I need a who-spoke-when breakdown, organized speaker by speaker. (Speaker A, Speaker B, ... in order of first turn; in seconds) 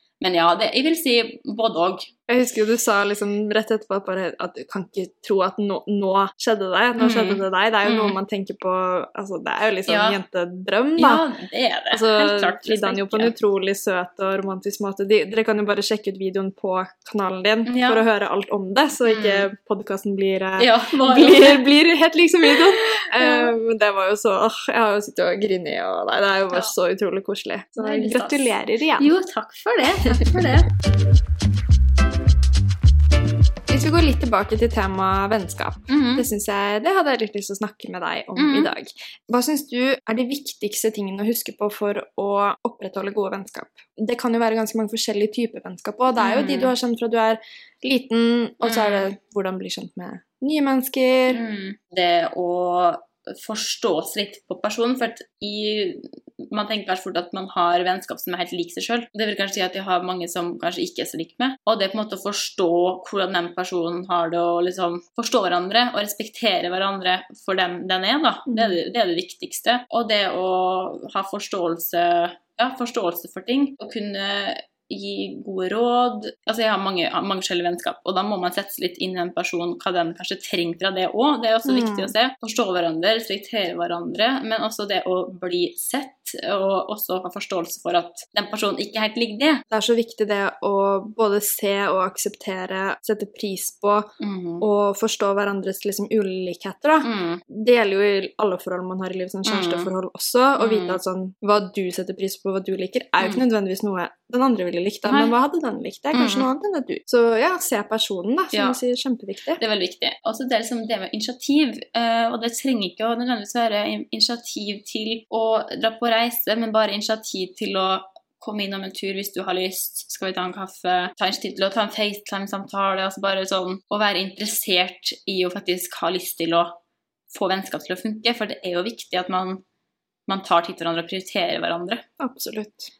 Speaker A: 0.2-2.1, 7.0-8.2, 9.9-10.2, 11.0-13.3, 17.6-18.0, 19.1-19.5, 20.6-21.7, 22.5-23.5, 27.8-30.7, 35.9-36.3, 38.4-38.7, 46.2-46.7, 48.6-49.1, 51.3-89.6, 94.2-94.6, 97.0-97.4, 99.4-99.9, 100.6-101.0, 105.0-105.3, 106.1-106.5, 108.5-108.8, 109.6-126.8, 127.3-129.6, 130.3-132.0
Speaker B: 2.3-11.2, 11.9-29.1, 30.1-30.4, 33.7-51.4, 68.5-68.8, 81.6-82.1, 89.7-109.6, 132.2-132.9